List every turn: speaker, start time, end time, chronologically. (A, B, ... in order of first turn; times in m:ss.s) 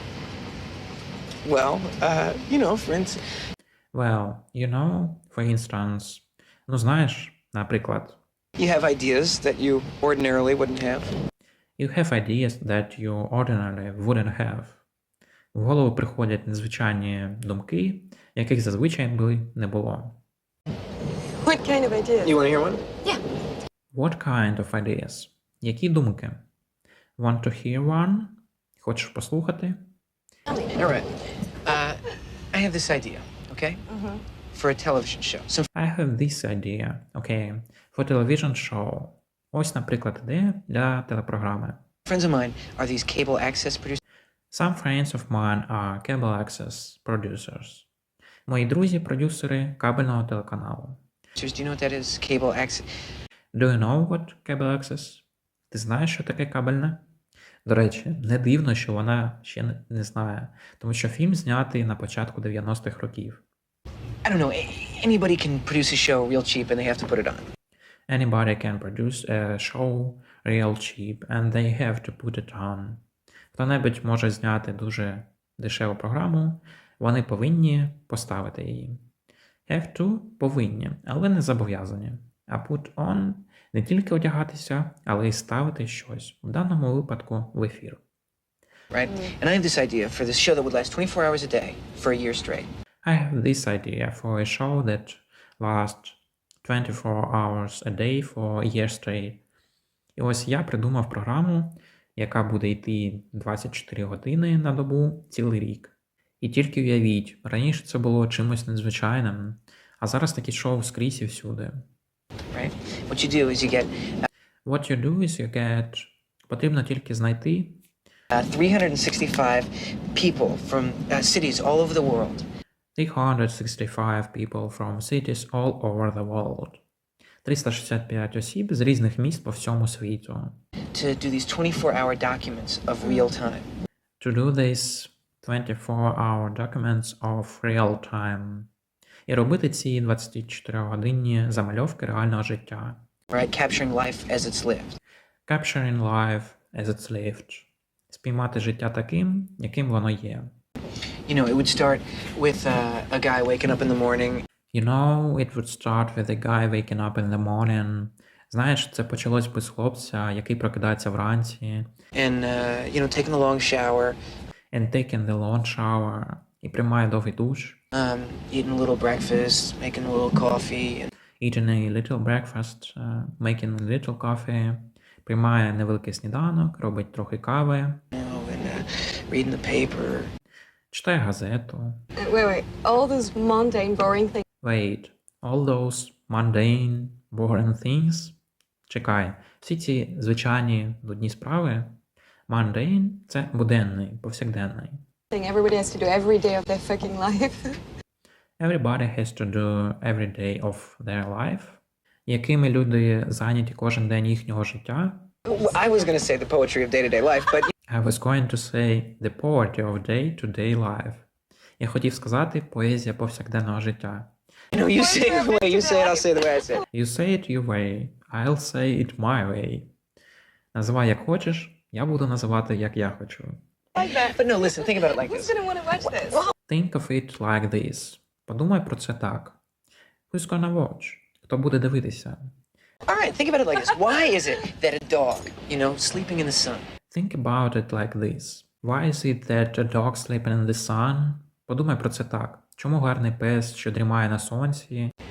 0:01.4-0:03.2 A
0:03.9-0:08.2 B
0:08.6-0:11.1 A
0:11.8-0:14.8 B
0:15.5-0:20.2 B
0:21.4-0:22.4 C
0:22.2-0:22.8 A
0:23.9-0:26.4 B
0:27.2-0:29.8 B
0:30.7-0:31.1 A
0:31.6-0:33.8 A
0:33.9-0:34.2 C
0:34.5-0:35.7 A
0:35.7-0:41.8 B
0:42.0-0:44.0 A
0:44.5-0:47.9 B
0:48.5-0:51.0 B
0:51.4-0:52.9 A
0:53.5-0:57.0 B
0:57.6-1:03.4 B
1:04.2-1:07.5 A
1:08.1-1:13.0 B
1:13.5-1:19.0 B
1:19.7-1:28.0 B
1:28.9-1:32.7 A
1:33.0-1:39.4 B
1:40.2-1:51.8 B
1:52.5-1:54.3 A
1:54.6-1:57.8 B
1:58.3-2:02.4 A
2:03.0-2:06.8 B
2:07.4-2:10.6 B
2:10.9-2:13.7 A
2:14.2-2:18.7 B
2:19.3-2:23.0 B
2:23.3-2:25.0 A
2:25.5-2:30.5 B
2:31.2-2:34.4 A
2:34.7-2:41.9 B
2:42.1-2:44.2 A
2:44.7-2:47.8 B
2:47.9-2:51.1 A
2:51.4-2:58.0 B
2:58.1-3:00.3 A
3:00.9-3:02.0 B
3:02.2-3:04.4 C
3:04.6-3:15.0 B
3:15.3-3:17.8 C
3:18.6-3:25.3 B
3:25.4-3:27.7 A
3:27.9-3:31.2 B
3:31.8-3:34.3 B
3:34.7-3:36.8 A
3:35.0-3:35.9 C
3:36.9-3:39.9 B
3:40.7-3:43.6 B
3:44.0-3:46.4 C
3:44.0-3:45.6 A
3:46.2-3:46.5 A
3:46.6-3:49.6 B
3:50.3-3:52.5 B
3:53.0-3:56.9 A
3:57.1-4:05.1 B